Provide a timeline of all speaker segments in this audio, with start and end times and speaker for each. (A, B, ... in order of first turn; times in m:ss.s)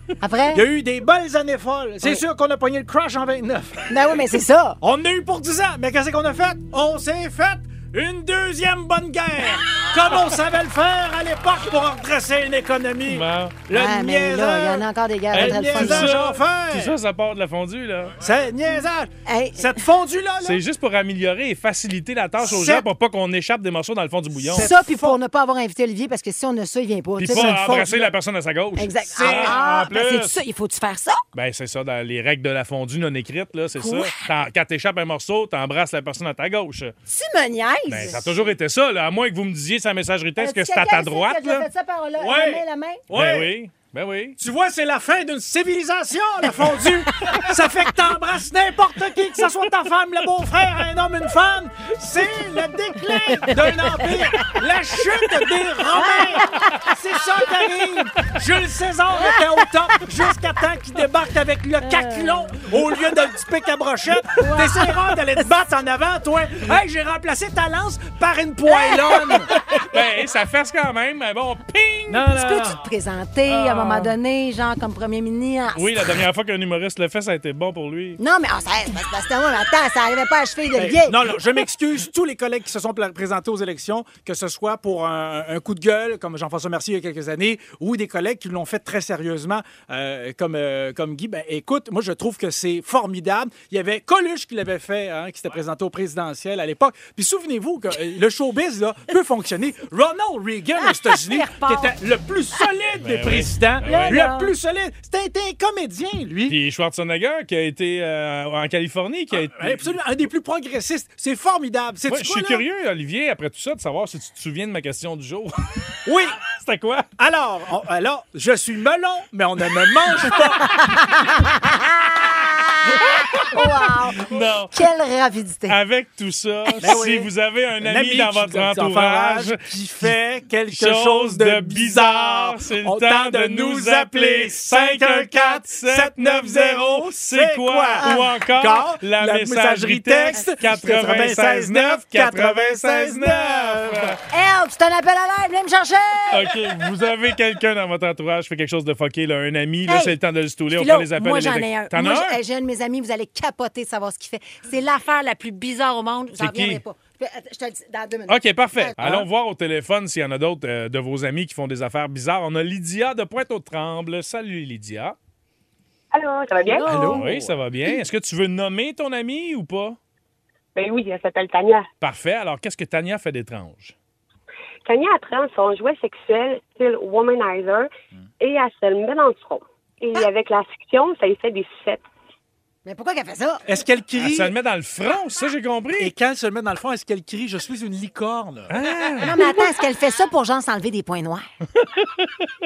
0:00.2-0:00.7 A
0:00.5-0:04.0 B
0:03.9-0:04.8 A
0:04.8-0:16.9 B
0:13.1-0:13.6 C
0:13.7-0:16.1 A
0:15.3-0:18.2 C
0:18.2-0:20.6 B
0:19.3-0:19.8 A
0:20.4-0:24.7 C
0:22.4-0:22.9 B
0:24.4-0:25.2 B
0:24.6-0:27.9 A
0:27.2-0:30.4 C
0:27.3-0:28.1 B
0:28.8-0:31.2 A
0:29.1-0:29.6 B
0:31.4-0:36.9 C
0:33.8-0:34.2 A
0:37.1-0:38.5 A
0:37.9-0:41.7 C
0:40.4-0:43.0 A
0:42.2-0:43.5 B
0:43.1-0:44.4 C
0:44.4-1:09.6 B
0:47.1-0:47.5 A
0:53.1-0:54.6 A
0:56.0-0:56.9 A
0:59.2-1:00.0 A
1:01.8-1:02.7 A
1:04.4-1:05.5 A
1:08.7-1:09.5 A
1:09.6-1:12.3 C
1:12.1-1:12.8 B
1:12.3-1:16.0 A
1:13.5-1:14.2 C
1:15.7-1:18.2 C
1:18.2-1:21.2 A
1:20.8-1:46.6 B
1:40.8-1:41.9 A
1:43.0-1:44.2 C
1:43.8-1:44.5 A
1:46.5-1:49.9 C
1:49.3-1:52.6 B
1:52.1-1:55.9 C
1:56.1-1:56.4 B
1:56.4-1:57.1 C
1:57.2-2:00.7 B
2:00.6-2:05.8 A
2:03.3-2:03.6 C
2:04.2-2:04.9 C
2:05.7-2:10.1 C
2:06.8-2:24.2 B
2:10.7-2:24.2 C
2:18.0-2:18.3 A
2:20.4-2:21.4 A
2:24.3-2:26.6 A
2:26.3-2:32.4 C
2:29.9-2:30.2 A
2:30.7-2:39.2 A
2:36.4-2:36.8 C
2:38.3-2:45.2 C
2:46.1-2:46.9 D
2:46.6-2:47.3 A
2:46.8-2:47.6 B
2:47.1-2:50.0 C
2:50.8-2:51.9 D
2:52.0-2:54.0 C
2:54.8-2:57.9 D
2:58.4-3:02.0 D
3:02.9-3:03.6 A
3:03.7-3:04.5 B
3:04.2-3:06.1 C
3:06.0-3:08.8 B
3:08.7-3:09.4 C
3:09.2-3:11.4 A